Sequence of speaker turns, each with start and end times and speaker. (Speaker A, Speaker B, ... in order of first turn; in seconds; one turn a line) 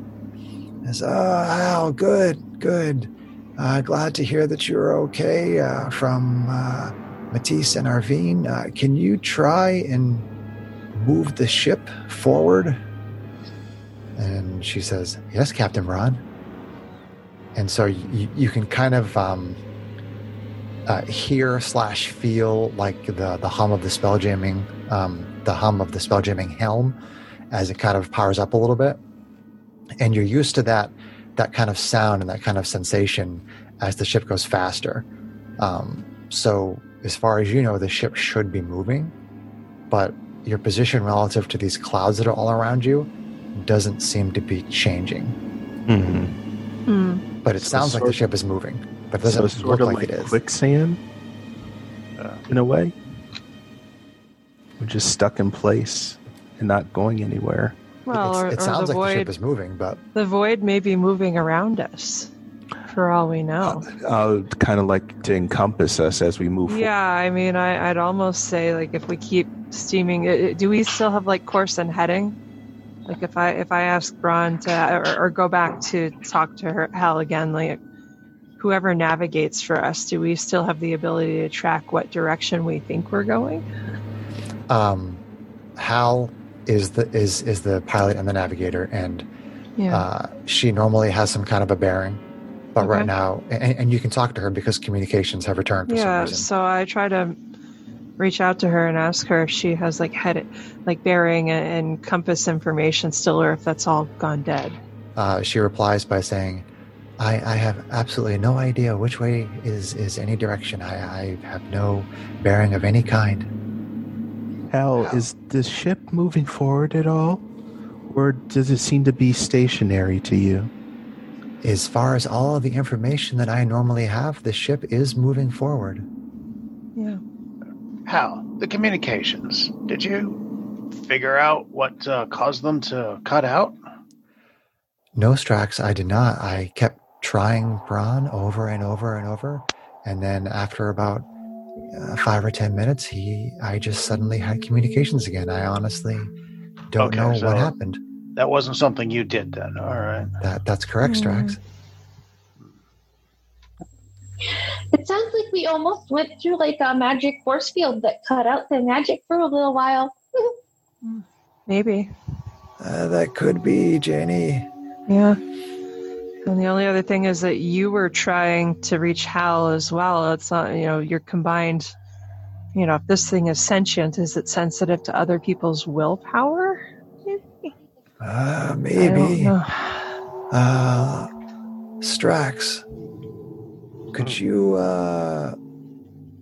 Speaker A: 0.8-10.3
Speaker A: 10.9-12.8
Speaker A: 14.2-16.2
Speaker A: 17.6-19.6
Speaker A: 20.9-27.0
Speaker A: 27.5-29.0
Speaker A: 30.0-35.1
Speaker A: 35.6-39.1
Speaker A: 39.9-45.4
Speaker B: 45.9-46.4
Speaker C: 46.9-47.2
Speaker A: 47.4-50.4
Speaker B: 47.6-48.2
Speaker B: 49.3-51.0
Speaker B: 52.5-52.9
Speaker B: 54.8-57.8
Speaker C: 58.1-59.3
Speaker A: 58.1-60.0
Speaker C: 60.1-62.3
Speaker C: 62.9-63.9
Speaker B: 63.7-66.9
Speaker C: 66.7-72.4
Speaker C: 73.1-77.8
Speaker C: 78.6-83.6
Speaker A: 84.7-85.2
Speaker A: 85.8-89.3
Speaker C: 89.8-90.0
Speaker A: 89.9-92.2
Speaker A: 92.7-96.5
Speaker C: 92.8-93.1
Speaker C: 95.9-97.4
Speaker C: 98.2-104.8
Speaker A: 105.2-106.7
Speaker A: 107.2-113.5
Speaker B: 114.7-117.5
Speaker B: 118.1-120.7
Speaker A: 121.6-126.0
Speaker C: 127.0-127.2
Speaker D: 128.1-130.4
Speaker D: 131.0-133.8
Speaker A: 135.1-141.3
Speaker A: 141.8-146.3
Speaker A: 146.9-148.0
Speaker D: 147.0-147.7
Speaker D: 148.4-150.3
Speaker A: 150.4-151.6
Speaker C: 151.0-151.6
Speaker E: 154.9-160.5
Speaker C: 161.1-162.1
Speaker A: 162.8-164.7
Speaker C: 165.1-165.4
Speaker C: 166.4-171.9
Speaker C: 172.7-177.7
Speaker A: 178.2-179.6
Speaker C: 179.0-180.2
Speaker A: 180.5-181.3
Speaker A: 182.0-182.8
Speaker A: 184.1-185.6